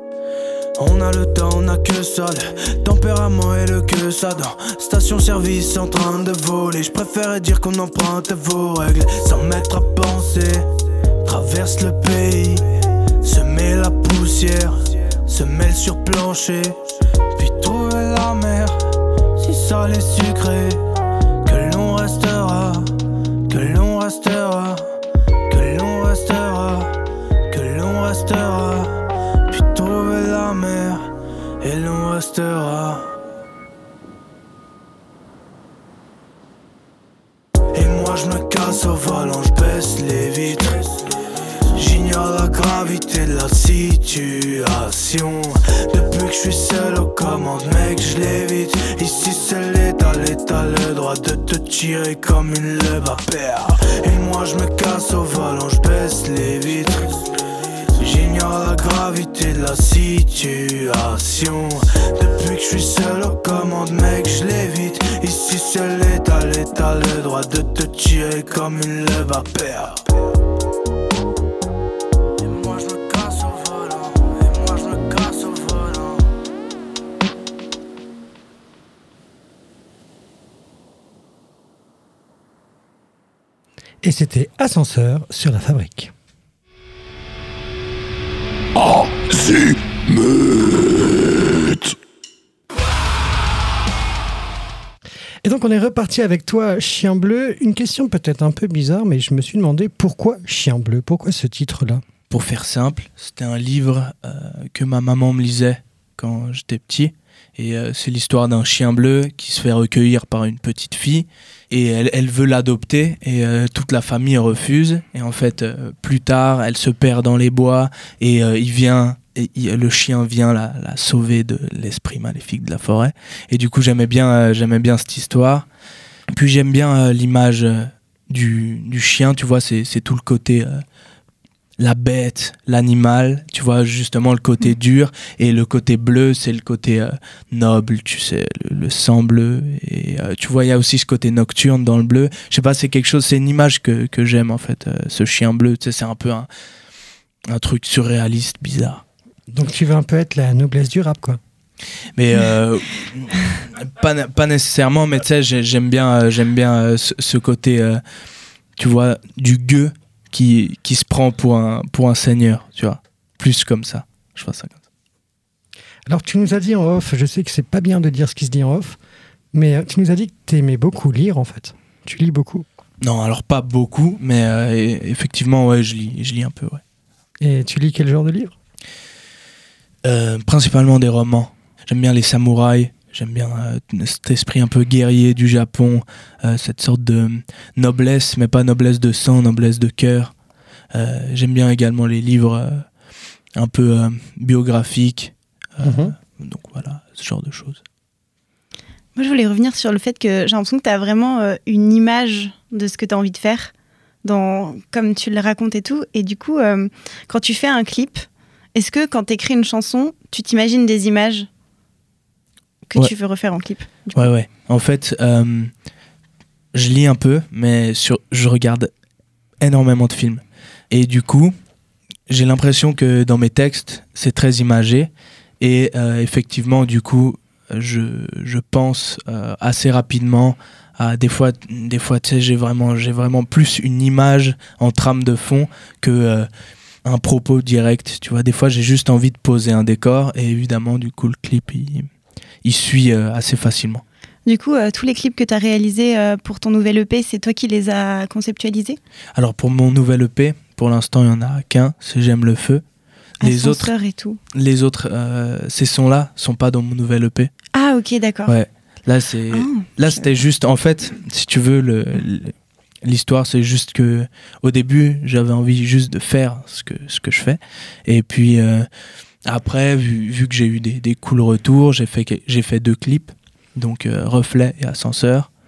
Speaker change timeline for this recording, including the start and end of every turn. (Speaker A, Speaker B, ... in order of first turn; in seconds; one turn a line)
Speaker A: 0.8-10.7
Speaker A: 11.2-12.7
Speaker A: 13.2-16.8
Speaker A: 17.4-18.8
Speaker A: 19.4-20.8
Speaker A: 21.4-24.9
Speaker A: 25.5-26.9
Speaker A: 27.5-29.0
Speaker A: 29.5-33.1
Speaker A: 37.7-41.1
Speaker A: 41.7-57.4
Speaker A: 57.9-70.0
Speaker A: 72.4-76.3
Speaker B: 84.0-86.1
Speaker B: 95.4-102.0
Speaker C: 102.3-125.7
Speaker C: 126.3-130.8
Speaker C: 131.8-146.5
Speaker C: 147.5-149.0
Speaker B: 149.5-151.4
Speaker C: 152.2-158.0
Speaker C: 158.8-164.8
Speaker B: 166.1-169.0
Speaker B: 169.5-172.7
Speaker C: 173.0-176.8
Speaker B: 177.4-178.5
Speaker C: 180.0-190.3
Speaker C: 190.9-192.8
Speaker C: 193.6-197.8
Speaker B: 195.8-196.1
Speaker D: 199.2-203.7
Speaker D: 204.2-211.5
Speaker D: 212.9-214.3
Speaker C: 214.1-215.7
Speaker C: 216.7-218.9
Speaker C: 219.6-221.5
Speaker C: 222.3-236.5
Speaker C: 237.0-242.1
Speaker C: 242.6-244.0
Speaker D: 244.4-249.0
Speaker C: 249.3-252.8
Speaker D: 253.4-254.4
Speaker C: 253.4-253.9
Speaker C: 254.5-257.5
Speaker D: 257.7-258.5
Speaker C: 258.5-262.5
Speaker D: 259.5-259.9
Speaker C: 263.0-268.9
Speaker C: 269.4-275.5